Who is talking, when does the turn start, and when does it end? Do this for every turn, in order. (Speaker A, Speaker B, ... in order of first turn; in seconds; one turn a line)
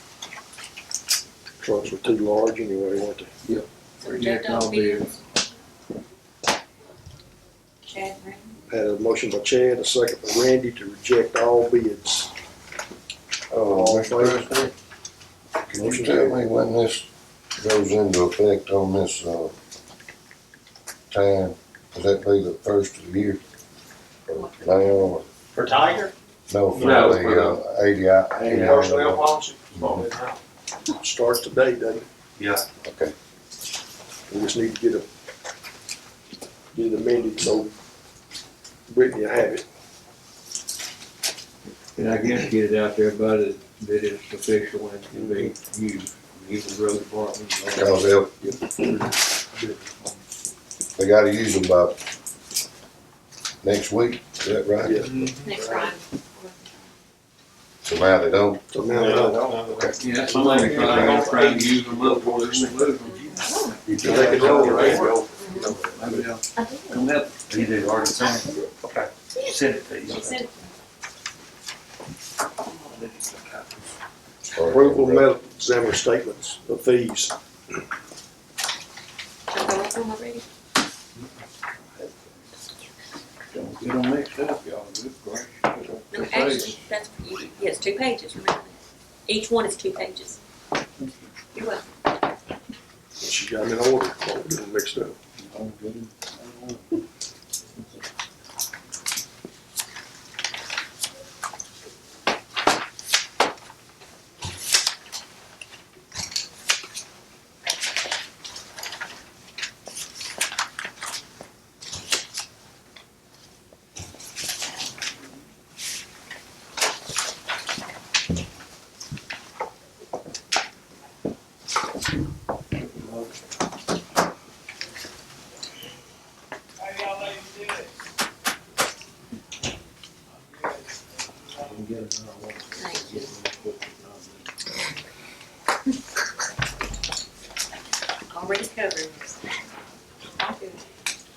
Speaker A: 1.6-3.3
Speaker B: 3.5-5.1
Speaker C: 4.0-5.2
Speaker C: 7.8-8.6
Speaker A: 8.7-12.3
Speaker D: 13.5-14.7
Speaker A: 13.6-14.5
Speaker D: 15.7-19.5
Speaker A: 15.7-16.4
Speaker D: 21.1-23.4
Speaker D: 24.3-25.3
Speaker C: 24.4-25.1
Speaker E: 25.6-26.1
Speaker D: 26.5-30.1
Speaker B: 26.7-27.6
Speaker A: 28.3-32.0
Speaker D: 32.8-33.1
Speaker A: 34.3-35.1
Speaker A: 36.7-37.7
Speaker A: 38.9-39.6
Speaker B: 42.0-49.1
Speaker D: 47.7-48.3
Speaker D: 51.0-52.0
Speaker D: 53.6-55.0
Speaker A: 54.8-55.8
Speaker E: 55.0-55.6
Speaker C: 55.4-56.9
Speaker D: 57.8-58.7
Speaker A: 58.7-59.5
Speaker E: 58.9-66.3
Speaker D: 59.6-59.9
Speaker B: 60.0-63.3
Speaker C: 63.0-64.4
Speaker A: 63.9-65.2
Speaker B: 64.0-64.9
Speaker C: 65.4-65.8
Speaker B: 65.8-67.5
Speaker C: 66.5-67.1
Speaker F: 67.5-70.5
Speaker E: 67.5-68.3
Speaker C: 70.1-70.5
Speaker F: 72.8-73.8
Speaker D: 74.5-75.3
Speaker A: 74.6-77.3
Speaker C: 79.5-80.4
Speaker B: 83.5-86.9
Speaker C: 86.1-90.4
Speaker C: 91.5-91.8
Speaker A: 93.2-95.2
Speaker B: 95.4-96.8
Speaker B: 131.5-134.5
Speaker C: 132.8-133.2
Speaker C: 138.3-139.7
Speaker C: 140.3-140.8